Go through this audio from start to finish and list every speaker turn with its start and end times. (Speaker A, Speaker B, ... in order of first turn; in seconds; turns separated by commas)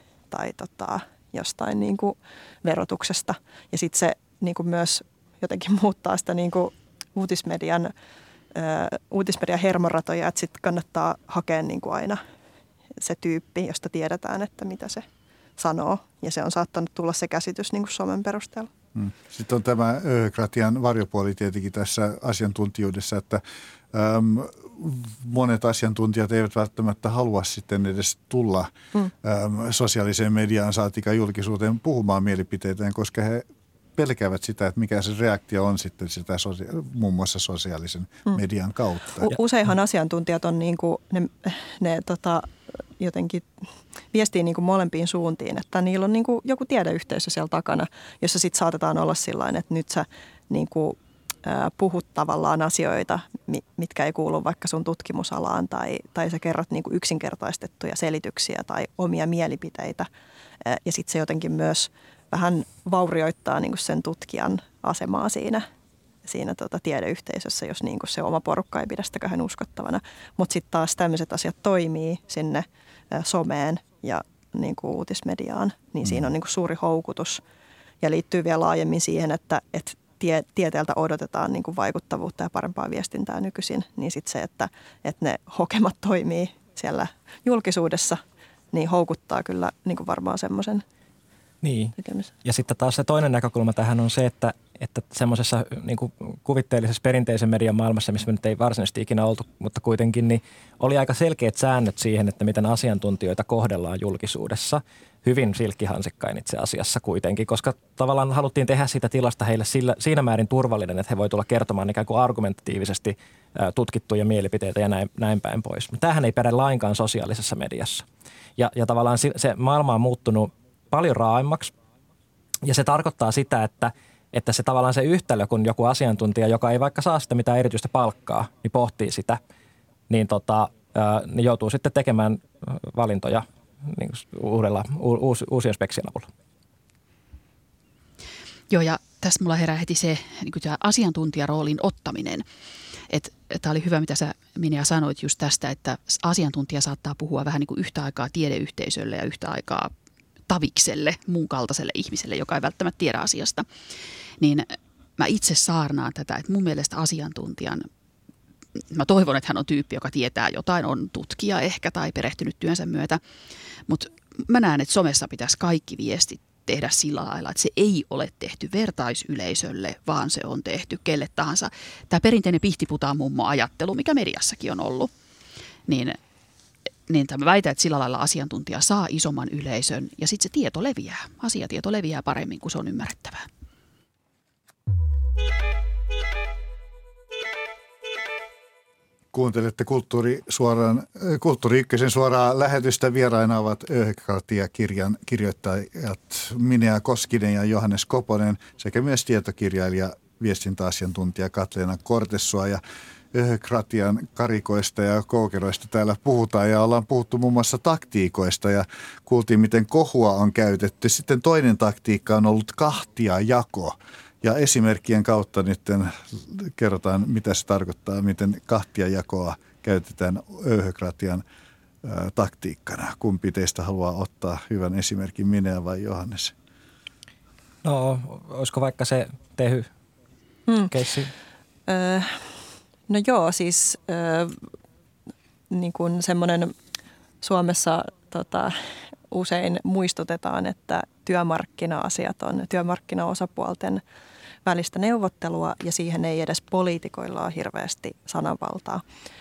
Speaker A: 0.3-7.9, Speaker A: 8.5-12.2, Speaker A: 13.0-15.0, Speaker A: 15.6-18.7, Speaker B: 18.9-23.4, Speaker B: 23.9-28.7, Speaker B: 29.2-39.4, Speaker A: 39.2-43.5, Speaker A: 44.1-60.1, Speaker A: 60.6-65.6, Speaker A: 66.2-77.4, Speaker A: 78.0-88.2, Speaker A: 88.7-90.8, Speaker C: 91.6-118.0, Speaker A: 92.0-92.3, Speaker C: 118.6-121.7, Speaker C: 122.6-129.4, Speaker C: 130.1-136.3, Speaker D: 138.7-142.4, Speaker D: 143.1-149.9, Speaker D: 150.5-153.7, Speaker D: 154.4-157.8, Speaker D: 158.9-163.2, Speaker D: 163.9-175.1, Speaker D: 175.9-176.2, Speaker D: 177.1-183.5, Speaker B: 189.3-202.8, Speaker B: 203.3-221.4, Speaker B: 222.0-226.5, Speaker C: 227.8-229.9, Speaker C: 230.9-231.3, Speaker A: 231.9-232.4, Speaker A: 233.1-234.6, Speaker A: 235.7-236.7, Speaker A: 237.4-238.7, Speaker A: 239.3-244.0, Speaker A: 244.6-249.0